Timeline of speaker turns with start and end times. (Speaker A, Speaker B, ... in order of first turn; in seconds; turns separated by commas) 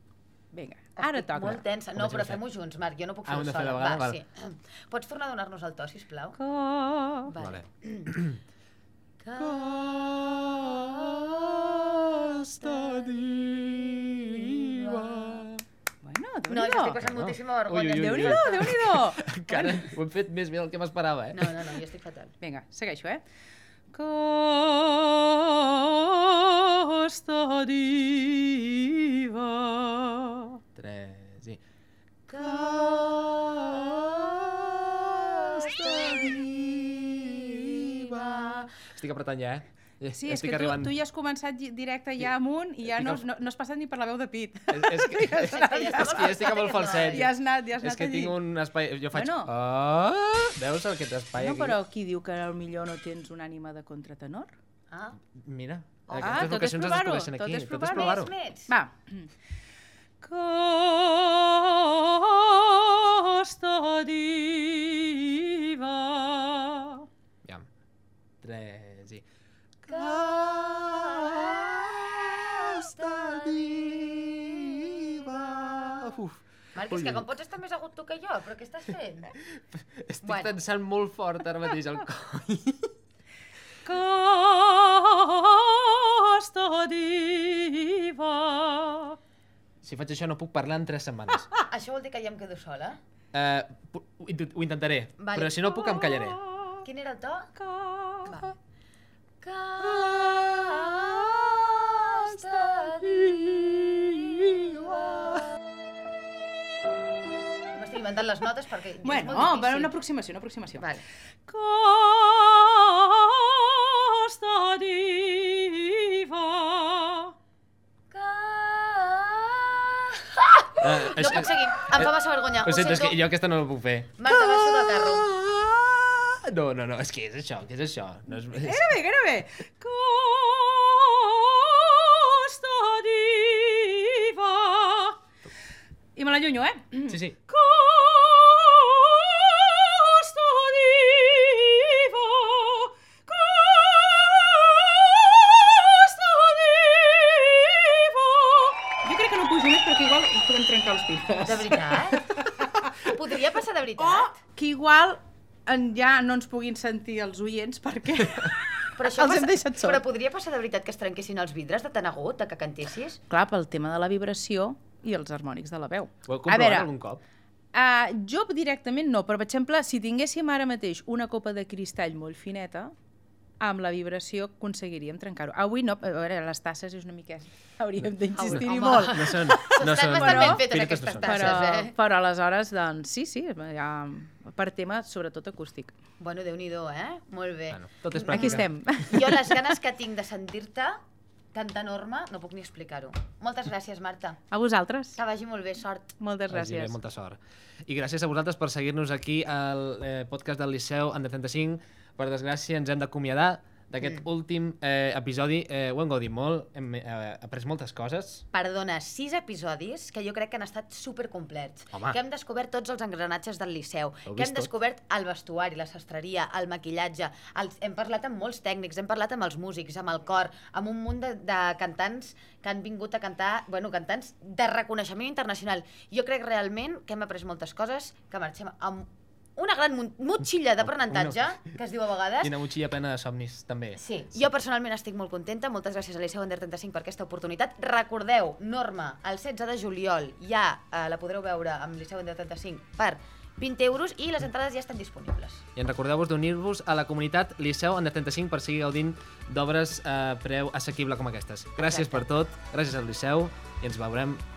Speaker A: 0.5-1.6, Speaker B: 1.0-6.4, Speaker C: 1.9-2.4, Speaker C: 3.3-4.2, Speaker A: 6.4-7.3, Speaker B: 7.3-8.1, Speaker C: 7.4-8.4, Speaker B: 9.2-13.2, Speaker C: 9.3-15.6, Speaker B: 14.2-15.4, Speaker A: 16.0-17.0, Speaker B: 16.5-18.7, Speaker C: 17.0-21.7, Speaker A: 17.9-19.9, Speaker B: 21.3-22.3, Speaker A: 22.4-23.2, Speaker A: 23.9-30.6, Speaker C: 30.8-31.6, Speaker B: 32.3-34.1, Speaker C: 32.4-40.9, Speaker B: 35.5-36.2, Speaker B: 38.1-38.5, Speaker A: 40.1-48.4, Speaker C: 42.9-43.2, Speaker C: 44.7-51.8, Speaker B: 45.4-47.3, Speaker A: 49.1-49.5, Speaker A: 51.4-54.5, Speaker B: 54.9-55.2, Speaker C: 55.3-58.3, Speaker B: 56.1-56.5, Speaker A: 56.2-59.3, Speaker B: 57.9-58.7, Speaker A: 60.2-67.1, Speaker C: 68.4-69.2, Speaker C: 69.8-77.3, Speaker B: 69.9-71.4, Speaker B: 72.7-73.9, Speaker B: 76.8-79.3, Speaker C: 79.9-82.9, Speaker B: 80.2-80.5, Speaker A: 83.8-89.2, Speaker C: 89.8-91.5, Speaker B: 91.6-93.0, Speaker C: 93.3-96.4, Speaker B: 95.2-95.8, Speaker B: 96.8-97.5, Speaker A: 97.6-98.4, Speaker B: 98.3-98.6, Speaker B: 99.4-103.2, Speaker C: 100.0-100.8, Speaker C: 103.0-103.9, Speaker C: 104.5-104.9, Speaker B: 107.7-109.9, Speaker A: 109.0-110.9, Speaker B: 110.8-111.0, Speaker A: 111.5-117.3, Speaker B: 118.1-123.2, Speaker C: 120.8-128.9, Speaker B: 124.2-125.3, Speaker A: 128.5-135.2, Speaker A: 136.2-152.6, Speaker C: 137.1-137.4, Speaker B: 151.4-152.2, Speaker B: 153.0-154.3, Speaker A: 154.0-160.0, Speaker B: 159.0-163.2, Speaker A: 163.3-166.9, Speaker C: 166.3-167.2, Speaker A: 167.7-172.9, Speaker A: 173.6-180.6, Speaker B: 178.3-181.9, Speaker C: 178.4-181.7, Speaker A: 181.2-185.9, Speaker B: 186.2-191.0, Speaker C: 187.7-188.7, Speaker A: 188.3-189.6, Speaker B: 191.5-194.4, Speaker A: 194.5-195.2, Speaker B: 195.2-196.1, Speaker A: 196.2-197.0, Speaker C: 196.5-208.4, Speaker B: 208.5-232.5, Speaker C: 211.9-212.2, Speaker C: 214.3-214.7, Speaker C: 230.8-231.5, Speaker C: 232.4-234.5, Speaker B: 234.0-245.7, Speaker C: 245.8-254.4, Speaker B: 251.8-252.2